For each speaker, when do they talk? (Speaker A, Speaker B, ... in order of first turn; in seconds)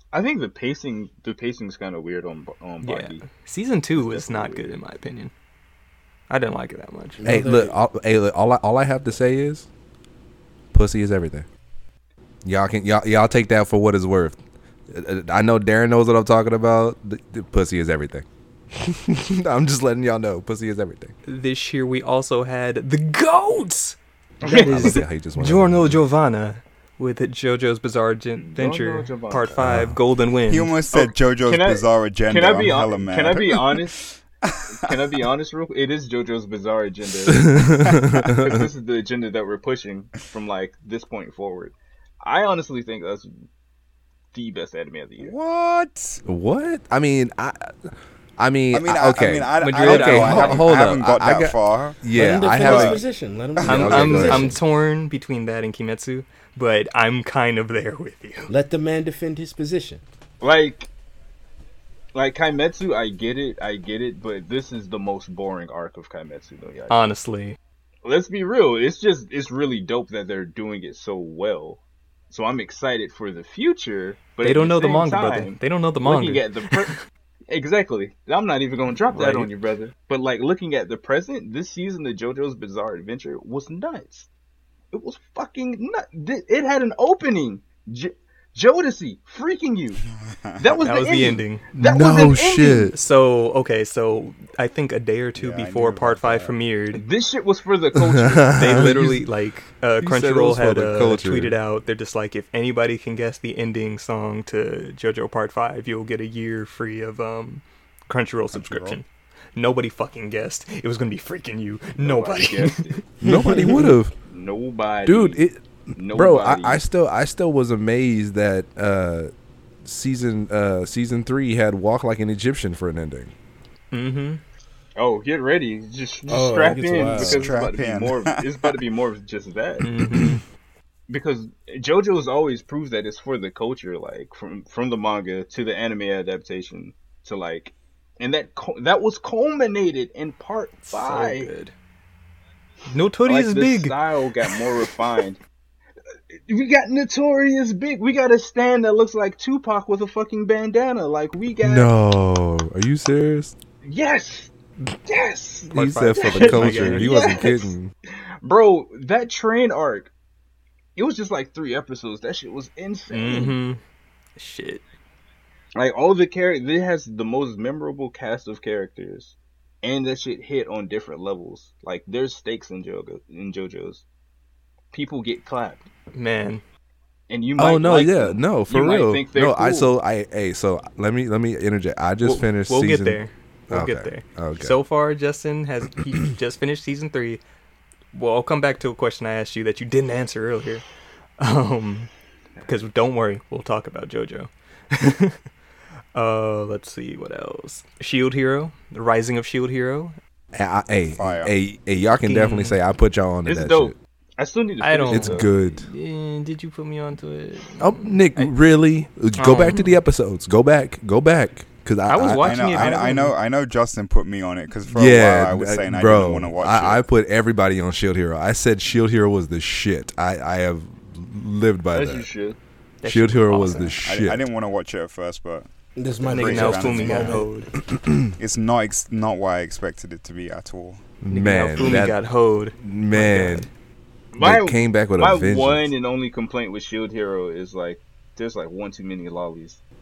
Speaker A: 0.1-3.3, 3.9-4.8, 24.4-24.9, 28.4-29.5, 30.9-34.1, 34.8-37.7, 38.2-43.3, 44.3-45.3, 60.4-60.9, 62.1-67.0, 68.0-76.9, 77.5-84.3, 84.9-90.0, 90.6-92.9, 96.9-98.9, 112.0-113.1, 114.3-115.4, 116.0-116.8, 125.0-129.9, 131.1-141.5, 143.3-145.4, 146.3-151.9, 153.8-154.5, 155.1-157.8, 158.4-160.1, 161.0-163.6, 165.8-174.0, 174.9-175.8, 177.3-179.9, 203.4-205.5, 221.9-222.6, 234.3-239.8
Speaker B: 2.8-5.3, 6.3-7.2, 21.3-30.8, 49.6-50.7, 53.7-58.5, 66.9-67.6, 74.4-77.0, 79.1-79.5, 90.8-91.6, 92.9-97.0, 98.5-109.0, 109.6-113.0, 123.9-124.4, 129.8-130.4, 140.9-141.7, 142.9-144.0, 155.7-157.3, 163.1-163.8, 164.4-164.8, 176.1-176.6, 182.2-187.4, 188.1-190.8, 191.4-192.1, 192.7-195.4, 196.2-200.2, 202.3-202.8, 204.8-208.5, 209.4-210.0, 212.1-213.4, 223.0-224.0, 226.3-227.7, 231.3-233.7
Speaker C: 7.2-7.8, 52.1-54.5, 58.5-60.0, 126.3-127.6, 226.0-227.5
Speaker D: 7.2-9.7, 10.7-11.5, 12.4-14.4, 14.9-21.1, 24.4-26.0, 29.6-30.0, 37.3-38.6, 46.2-53.0, 53.6-54.5, 91.7-93.0, 98.0-99.2, 100.0-101.6, 113.2-114.1, 115.1-119.3, 119.8-123.3, 151.6-153.6, 155.7-157.9, 177.6-184.8, 200.5-203.9, 205.1-205.9, 207.8-212.9, 214.9-222.3, 223.1-224.4, 227.9-228.3, 231.2-232.2, 232.8-233.7, 234.4-235.9
Speaker E: 30.5-33.9, 34.5-34.9, 38.0-38.4, 45.2-46.2, 48.7-53.1, 53.6-54.5, 90.5-90.7, 95.4-96.5, 108.5-109.0, 127.0-128.8, 201.1-201.5, 212.4-217.0, 224.0-225.7, 226.2-227.5, 228.4-231.0